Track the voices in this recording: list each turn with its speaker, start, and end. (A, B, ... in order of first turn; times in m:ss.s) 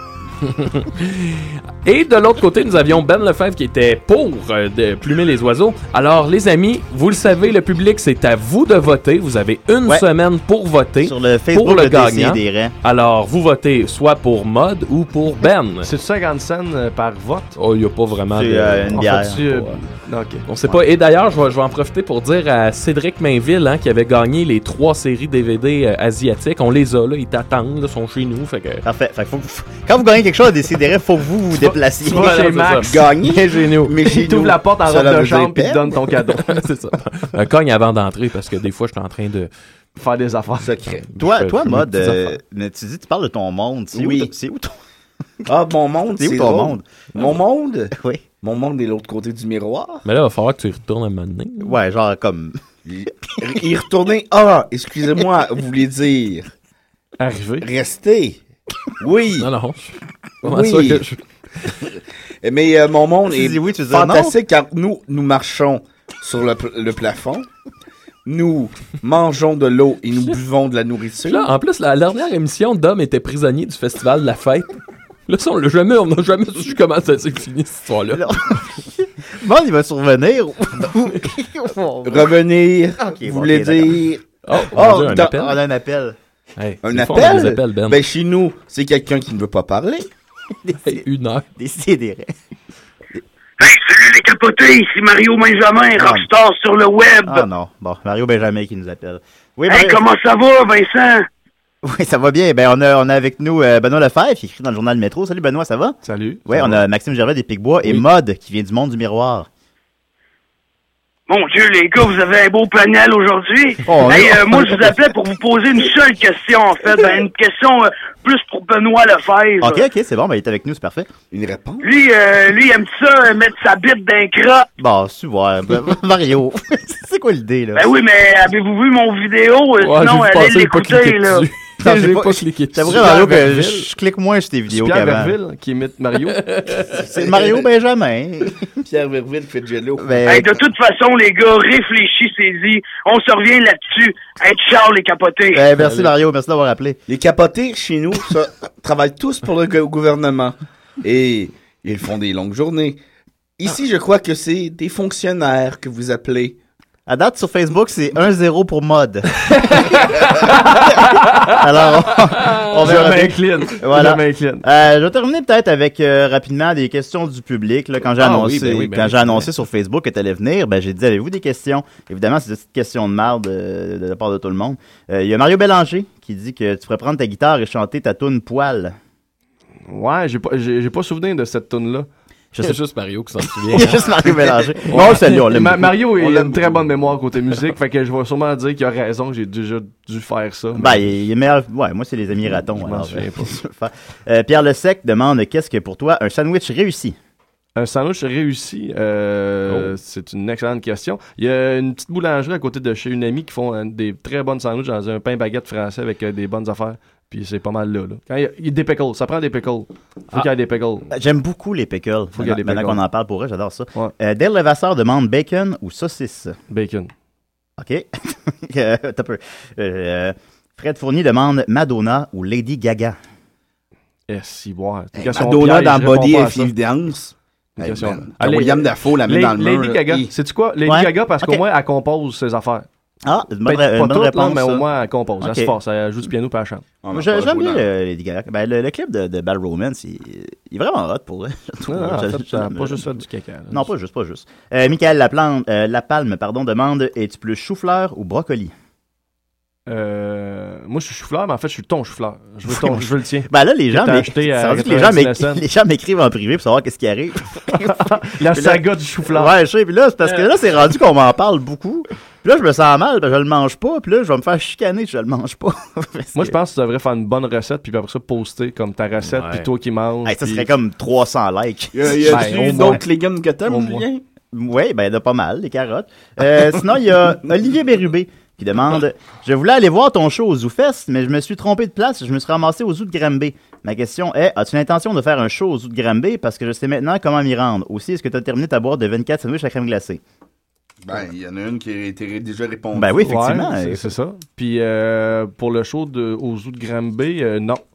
0:00.4-0:15.9 A
0:11.0-0:12.7 B
0:15.8-0:17.6 C
0:17.6-0:19.8 A
0:18.3-0:19.4 B
0:18.9-0:20.4 C
0:20.5-0:28.8 A
0:28.8-0:32.4 B
0:31.6-0:32.9 C
0:32.1-0:34.0 A
0:32.9-0:35.8 D
0:34.0-0:36.5 C
0:36.4-0:39.5 A
0:40.0-0:40.7 C
0:40.6-0:41.1 D
0:41.1-0:41.9 A
0:41.2-0:44.8 B
0:41.7-0:42.2 C
0:43.9-0:44.3 D
0:45.5-0:50.0 D
0:46.2-0:46.9 B
0:47.9-0:48.2 B
0:50.0-0:51.8 A
0:51.6-0:52.6 B
0:52.9-0:56.5 D
0:57.2-0:57.7 C
0:57.6-0:58.4 D
0:59.0-0:59.5 D
0:59.4-1:01.7 A
1:00.4-1:01.0 D
1:01.8-1:07.5 D
1:03.3-1:04.4 B
1:08.3-1:11.5 D
1:11.3-1:14.8 A
1:15.3-1:18.3 A
1:18.1-1:22.3 B
1:22.0-1:25.4 D
1:23.0-1:24.0 B
1:24.5-1:25.6 A
1:24.8-1:26.2 B
1:26.6-1:28.0 A
1:26.8-1:30.1 D
1:30.6-1:31.0 B
1:30.8-1:31.5 A
1:31.6-1:32.3 B
1:33.6-1:37.5 E
1:36.0-1:36.3 B
1:37.2-1:40.0 B
1:39.7-1:41.2 E
1:41.8-1:49.5 B
1:46.0-1:46.8 C
1:51.3-1:59.8 E
1:53.8-1:55.1 B
1:59.6-2:01.1 B
2:01.3-2:01.9 D
2:01.8-2:04.7 E
2:04.8-2:07.9 B
2:07.8-2:11.5 E
2:09.8-2:13.1 A
2:11.8-2:15.4 B
2:12.8-2:13.9 C
2:14.7-2:16.5 C
2:16.4-2:16.9 A
2:17.0-2:18.8 B
2:17.1-2:17.6 D
2:18.8-2:20.4 D
2:20.0-2:20.5 B
2:20.3-2:25.7 E
2:25.5-2:27.0 B
2:27.1-2:33.0 D
2:33.6-2:36.6 D
2:37.1-2:39.9 B
2:39.6-2:40.4 A
2:40.5-2:59.0 B
2:40.9-2:41.5 A
2:42.8-2:44.6 C
2:48.2-2:49.5 C
2:59.9-3:02.1 C
3:02.5-3:02.8 B
3:02.6-3:04.1 A
3:03.7-3:06.0 B
3:04.9-3:11.2 C
3:06.1-3:06.9 D
3:10.8-3:17.2 B
3:12.8-3:13.6 C
3:17.8-3:31.1 C
3:31.1-3:36.6 B
3:32.4-3:33.0 C
3:36.7-3:37.1 C
3:37.8-3:43.2 B
3:44.3-3:46.7 C
3:45.2-3:50.3 D
3:47.8-3:52.9 C
3:50.8-3:51.6 B
3:53.2-3:54.9 B
3:53.7-3:56.8 C
3:55.4-3:55.8 B
3:57.0-3:57.8 D
3:57.1-4:03.1 B
4:01.9-4:03.9 C
4:03.7-4:08.7 B
4:09.9-4:15.6 C
4:12.7-4:26.6 B
4:17.8-4:19.5 C
4:26.4-4:30.7 C
4:29.3-4:29.7 A
4:30.2-4:32.6 B
4:31.9-4:34.2 D
4:32.3-4:33.0 C
4:33.7-4:34.1 C
4:34.5-4:50.2 B
4:51.0-4:53.2 D
4:52.9-4:54.1 B
4:53.2-4:57.8 C